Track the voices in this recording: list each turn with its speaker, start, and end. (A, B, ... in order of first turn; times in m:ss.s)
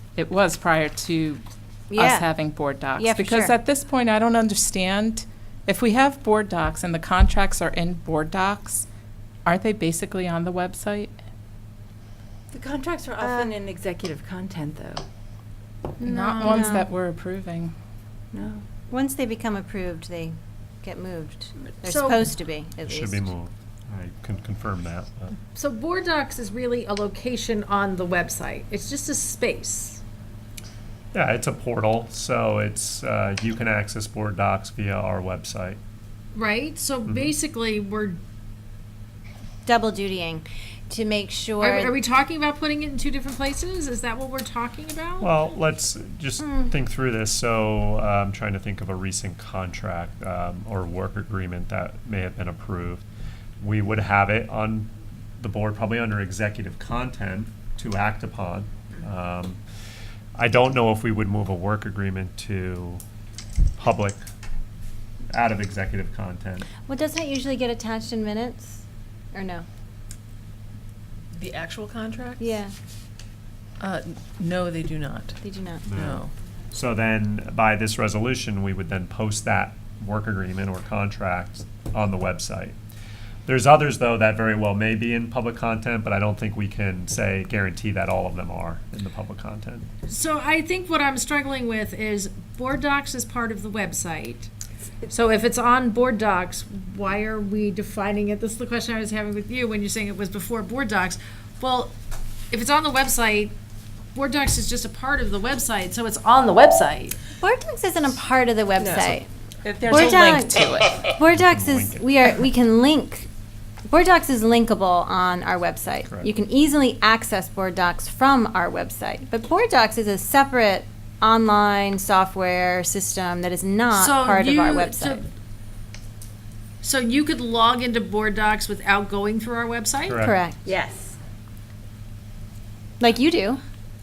0:00.2-0:08.8 A
0:01.9-0:02.3 B
0:03.0-0:03.5 B
0:09.4-0:11.1 A
0:12.5-0:15.0 C
0:13.2-0:13.5 B
0:16.0-0:16.8 D
0:16.0-0:17.7 A
0:16.4-0:16.8 B
0:18.3-0:18.6 C
0:18.9-0:23.3 B
0:21.8-0:22.2 D
0:22.8-0:25.4 E
0:25.5-0:30.0 D
0:31.1-0:35.8 E
0:36.3-0:38.2 D
0:39.6-0:41.9 B
0:41.6-0:45.3 D
0:45.2-0:53.0 E
0:53.6-0:59.6 E
1:00.4-1:03.0 E
1:03.8-1:04.2 E
1:05.3-1:06.7 E
1:06.9-1:09.6 B
1:11.4-1:12.4 F
1:12.4-1:12.7 B
1:13.8-1:15.4 F
1:15.4-1:15.8 B
1:15.8-1:22.8 E
1:15.9-1:16.3 F
1:23.4-1:29.9 E
1:30.0-1:34.5 D
1:35.1-1:42.0 D
1:42.5-1:43.5 D
1:44.1-1:47.1 D
1:47.4-1:49.2 B
1:48.8-1:49.2 C
1:49.6-1:51.0 A
1:49.8-1:53.3 B
1:51.2-1:52.1 E
1:53.9-2:05.2 B
2:03.9-2:05.3 D
2:06.8-2:10.2 D
2:10.0-2:10.4 E
2:10.2-2:10.6 B
2:10.6-2:11.1 C
2:13.0-2:13.6 B